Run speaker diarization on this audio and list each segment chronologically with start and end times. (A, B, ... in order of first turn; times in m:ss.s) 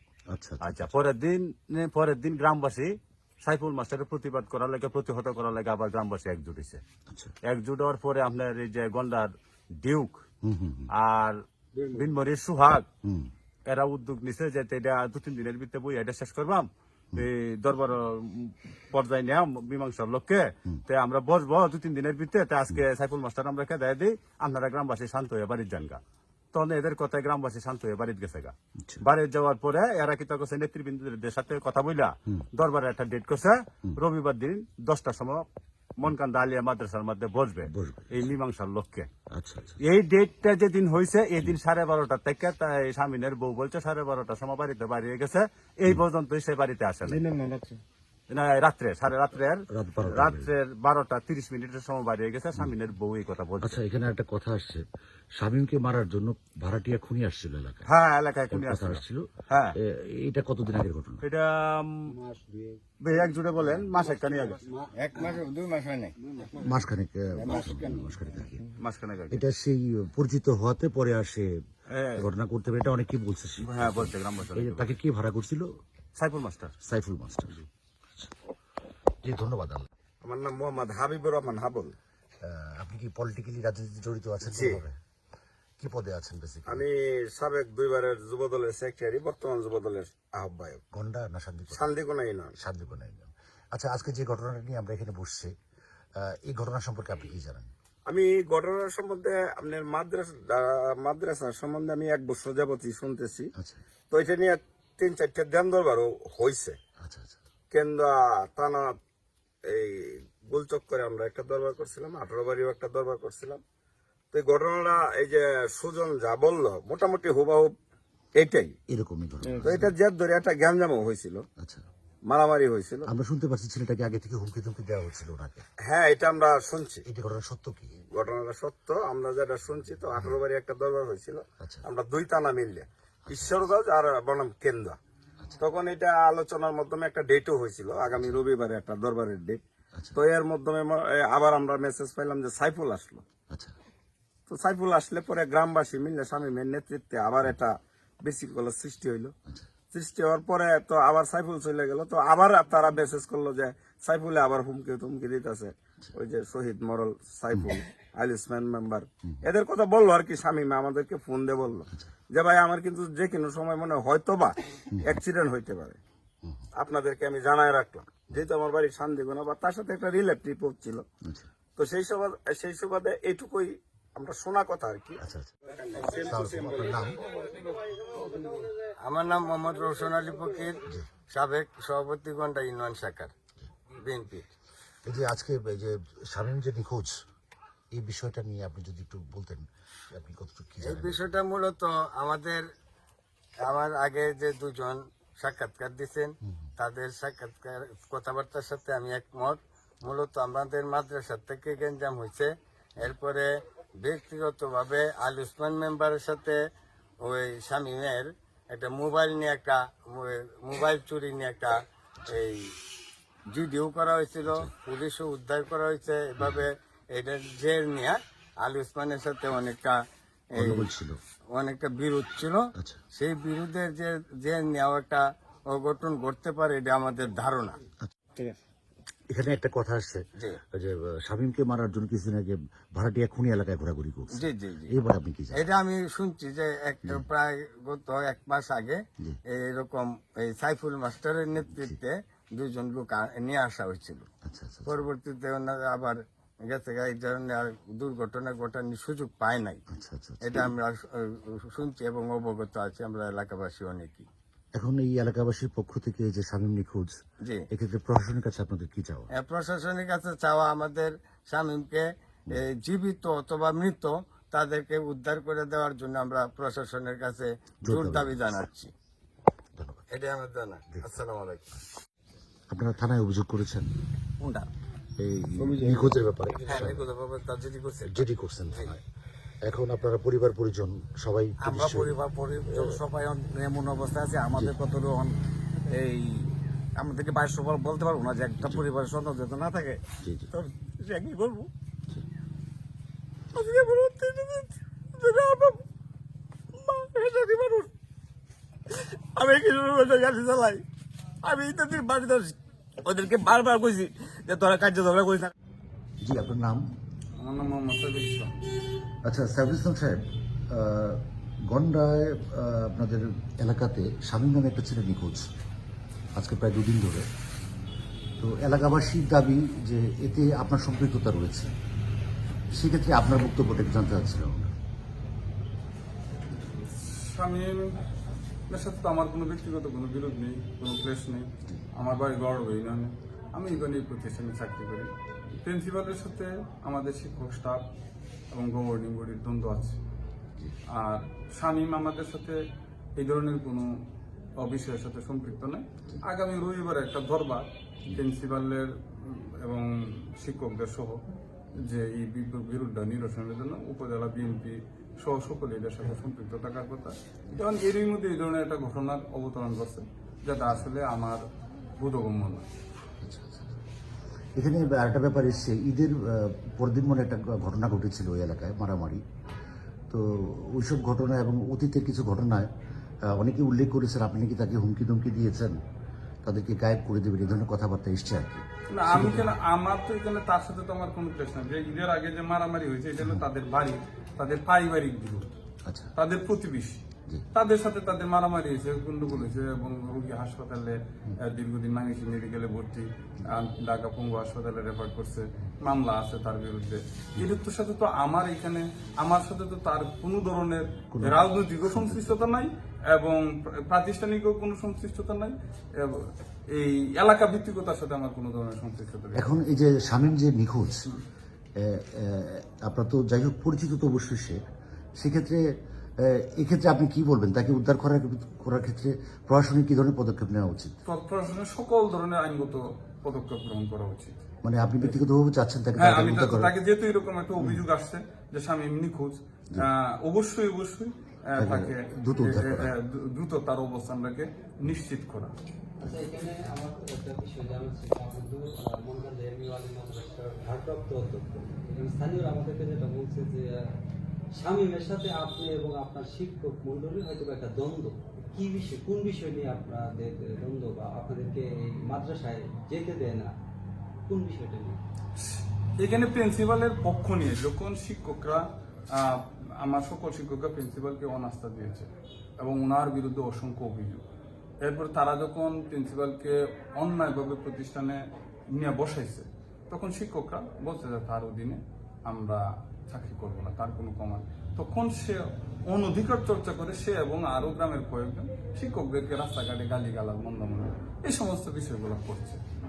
0:00.3-0:00.9 A
0:00.6-0:06.8 B
0:07.4-0:10.2 B
0:10.4-0:10.9 A
0:10.9-0:11.4 B
0:11.9-0:12.9 B
0:13.0-0:13.3 A
0:13.7-0:26.0 B
0:26.5-0:35.4 B
0:36.0-0:39.1 B
0:37.6-0:38.3 A
0:39.3-0:39.8 A
0:39.8-0:47.3 B
0:48.3-0:53.8 B
0:49.7-0:50.5 A
0:53.6-0:57.9 A
0:57.8-0:59.8 B
0:58.5-1:01.2 A
1:01.2-1:02.2 B
1:03.0-1:04.6 B
1:04.9-1:06.5 C
1:06.5-1:08.6 A
1:07.4-1:08.0 C
1:08.8-1:09.4 B
1:09.3-1:11.5 A
1:11.9-1:12.3 B
1:12.2-1:15.7 A
1:13.6-1:14.9 B
1:16.2-1:16.7 B
1:16.8-1:17.6 A
1:19.2-1:19.9 A
1:20.2-1:22.0 D
1:22.4-1:25.0 A
1:24.4-1:24.8 D
1:25.8-1:26.8 A
1:26.6-1:30.8 D
1:30.9-1:31.9 A
1:31.7-1:32.5 D
1:32.6-1:35.5 A
1:36.2-1:37.7 A
1:38.1-1:43.5 D
1:43.6-1:43.8 A
1:44.1-1:46.8 D
1:47.0-1:47.4 A
1:47.7-1:49.0 D
1:49.6-1:53.6 D
1:54.3-1:57.7 D
1:58.4-1:58.7 D
1:58.9-1:59.9 A
1:59.5-2:01.4 D
2:01.6-2:01.8 A
2:02.3-2:03.1 D
2:03.1-2:05.6 A
2:05.8-2:07.0 D
2:07.0-2:07.9 A
2:08.1-2:15.0 D
2:09.9-2:10.4 A
2:11.6-2:11.9 A
2:13.3-2:13.7 A
2:15.6-2:19.6 D
2:18.1-2:18.4 A
2:20.1-2:23.2 D
2:23.5-2:23.7 A
2:24.5-2:29.3 D
2:29.9-2:46.0 D
2:46.8-2:51.0 D
2:51.8-2:57.0 D
2:55.2-2:55.5 A
2:56.2-2:57.2 A
2:59.0-3:03.3 E
3:04.0-3:04.5 E
3:05.0-3:07.2 A
3:07.9-3:11.3 A
3:10.8-3:12.6 E
3:13.6-3:26.6 E
3:27.2-3:31.7 E
3:32.3-3:32.7 E
3:33.5-3:40.0 E
3:34.4-3:34.7 A
3:36.4-3:36.6 A
3:40.5-3:40.9 E
3:40.6-3:41.2 A
3:41.5-3:47.8 E
3:42.8-3:43.0 A
3:49.3-3:55.6 A
3:54.4-3:54.9 E
3:55.5-4:04.3 E
4:01.6-4:02.0 A
4:04.4-4:05.1 A
4:04.8-4:09.8 E
4:09.9-4:10.7 A
4:10.4-4:14.3 E
4:14.7-4:19.3 A
4:19.3-4:28.9 E
4:27.8-4:28.6 A
4:29.8-4:30.1 A
4:30.1-4:31.7 E
4:32.7-4:33.9 A
4:34.4-4:34.7 C
4:35.2-4:37.0 A
4:35.7-4:36.1 C
4:36.6-4:38.9 E
4:38.1-4:39.0 A
4:39.6-4:42.2 A
4:41.6-4:45.3 C
4:44.5-4:44.7 A
4:45.8-4:50.0 C
4:50.2-4:50.5 A
4:50.5-4:51.7 C
4:53.6-4:55.8 C
4:53.7-4:54.4 D
4:56.8-4:57.8 C
4:58.9-5:00.8 C
4:59.8-5:00.3 D
5:01.4-5:05.5 C
5:01.6-5:02.1 D
5:03.7-5:04.1 D
5:06.2-5:06.8 A
5:07.4-5:08.6 F
5:09.2-5:15.5 A
5:16.4-5:17.3 A
5:18.4-5:21.7 A
5:22.7-5:24.8 A
5:26.6-5:28.0 F
5:28.7-5:37.8 F
5:38.5-5:40.0 F
5:40.9-5:42.6 F
5:43.2-5:43.9 F
5:44.6-5:51.2 F
5:51.8-6:01.4 F
6:02.0-6:02.6 F
6:03.2-6:03.7 A
6:04.6-6:09.2 A
6:10.1-6:12.7 A
6:13.3-6:15.8 A
6:16.4-6:19.5 A
6:18.9-6:25.5 F
6:25.8-6:26.1 A
6:26.2-6:27.0 F
6:27.5-6:49.5 F
6:41.1-6:42.4 A
6:49.3-6:51.0 A
6:51.8-6:54.6 A
6:55.2-6:55.6 A
6:56.2-7:00.9 A
7:01.0-7:04.4 F
7:04.6-7:06.7 A
7:06.0-7:15.5 F
7:11.6-7:12.9 A
7:16.0-7:23.9 G
7:24.5-7:33.5 G
7:34.3-7:35.0 G
7:35.4-7:42.1 F
7:42.6-7:44.2 F
7:44.8-8:02.6 F